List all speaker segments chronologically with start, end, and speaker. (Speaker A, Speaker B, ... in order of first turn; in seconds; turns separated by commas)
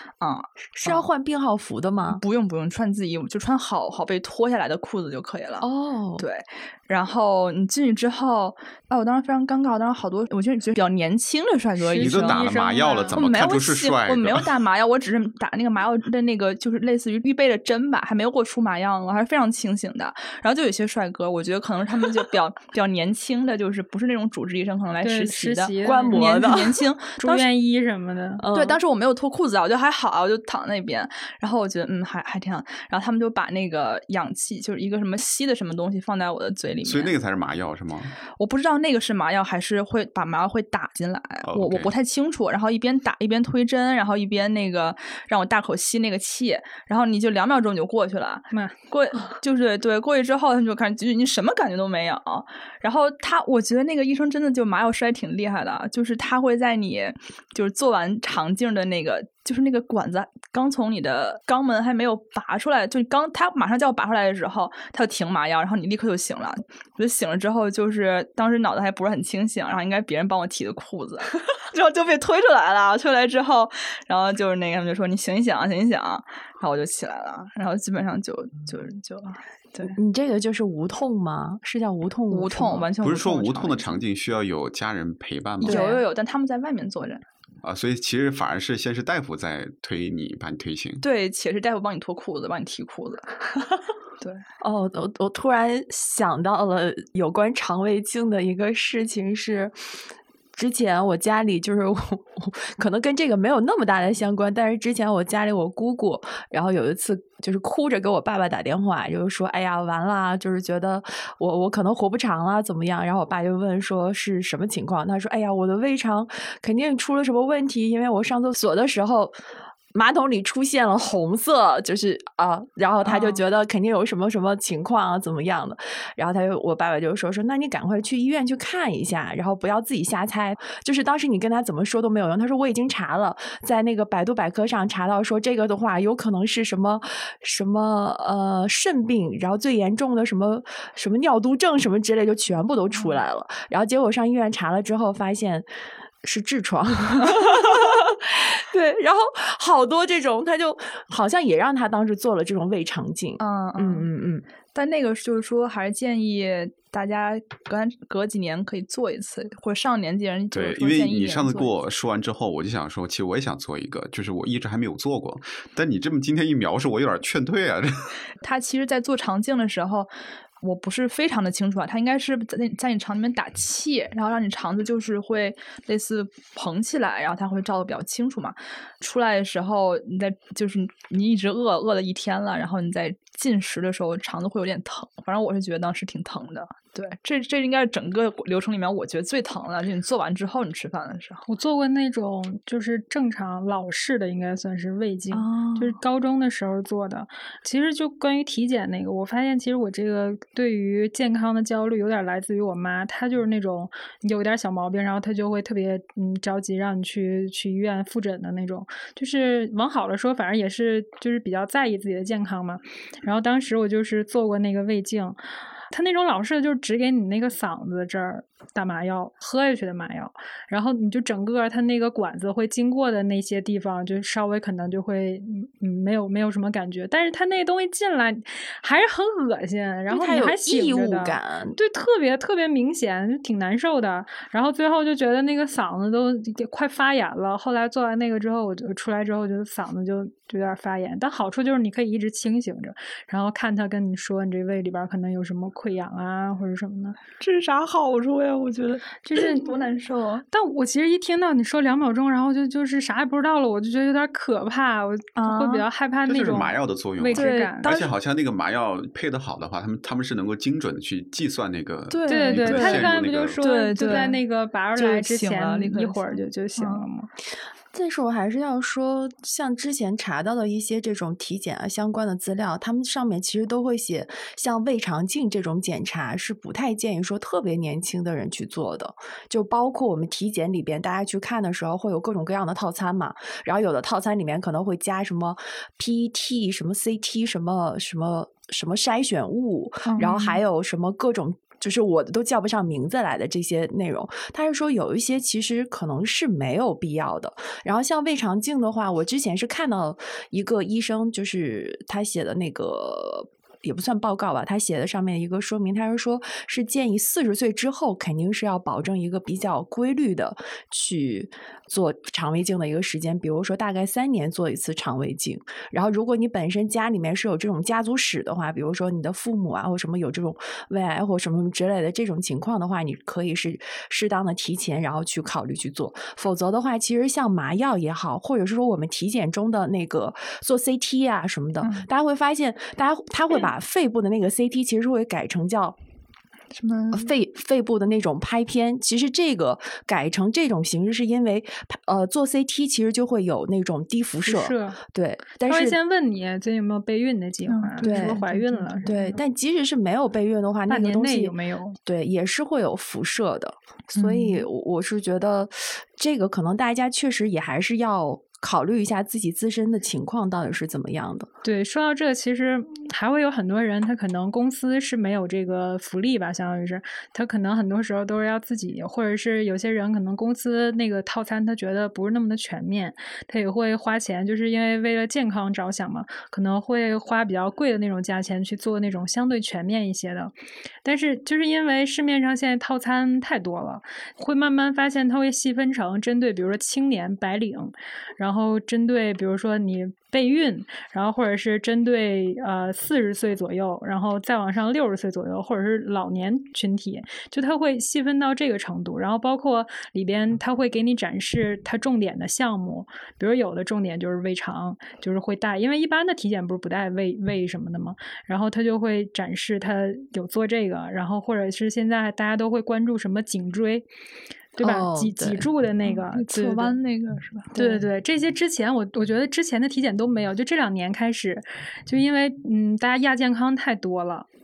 Speaker A: 0.2-1.1, Speaker B: 0.8-2.2, Speaker A: 2.1-5.7, Speaker B: 5.6-6.2, Speaker A: 6.2-12.4, Speaker C: 11.8-13.2, Speaker D: 12.0-14.5, Speaker A: 13.1-27.5, Speaker C: 25.0-26.5, Speaker B: 25.8-26.8, Speaker C: 27.2-28.4, Speaker B: 28.4-28.8, Speaker A: 28.5-37.1, Speaker D: 36.8-38.1, Speaker A: 38.4-80.0, Speaker D: 41.5-41.9, Speaker B: 79.9-82.9, Speaker A: 82.3-84.0, Speaker D: 83.0-85.8, Speaker B: 85.6-86.0, Speaker A: 85.6-87.2, Speaker D: 87.6-91.0, Speaker A: 91.0-93.3, Speaker B: 94.6-99.7, Speaker B: 100.5-119.3, Speaker B: 119.9-145.7, Speaker A: 123.0-123.4, Speaker B: 146.2-154.4, Speaker A: 153.4-154.1, Speaker A: 154.7-161.8, Speaker D: 160.5-168.1, Speaker A: 168.4-170.1, Speaker A: 170.6-191.4, Speaker C: 191.5-215.4, Speaker A: 195.3-196.0, Speaker C: 215.9-247.2, Speaker B: 230.1-231.8, Speaker A: 247.4-250.5, Speaker C: 249.2-249.8, Speaker C: 250.5-257.9, Speaker A: 255.4-255.9, Speaker D: 256.2-263.6, Speaker A: 257.3-258.1, Speaker A: 262.1-264.4, Speaker C: 262.3-267.3, Speaker A: 265.0-267.1, Speaker B: 267.9-336.0, Speaker A: 290.1-290.6, Speaker A: 331.8-332.1, Speaker A: 336.7-337.3, Speaker B: 337.1-346.0, Speaker C: 344.4-345.0, Speaker C: 345.7-349.4, Speaker A: 347.7-349.1, Speaker B: 348.0-348.4, Speaker B: 349.1-361.5, Speaker C: 350.9-352.0, Speaker A: 354.2-354.7, Speaker C: 361.6-414.1, Speaker C: 414.8-417.0, Speaker B: 414.8-415.7, Speaker A: 416.0-417.7, Speaker B: 417.7-418.1, Speaker C: 417.8-424.5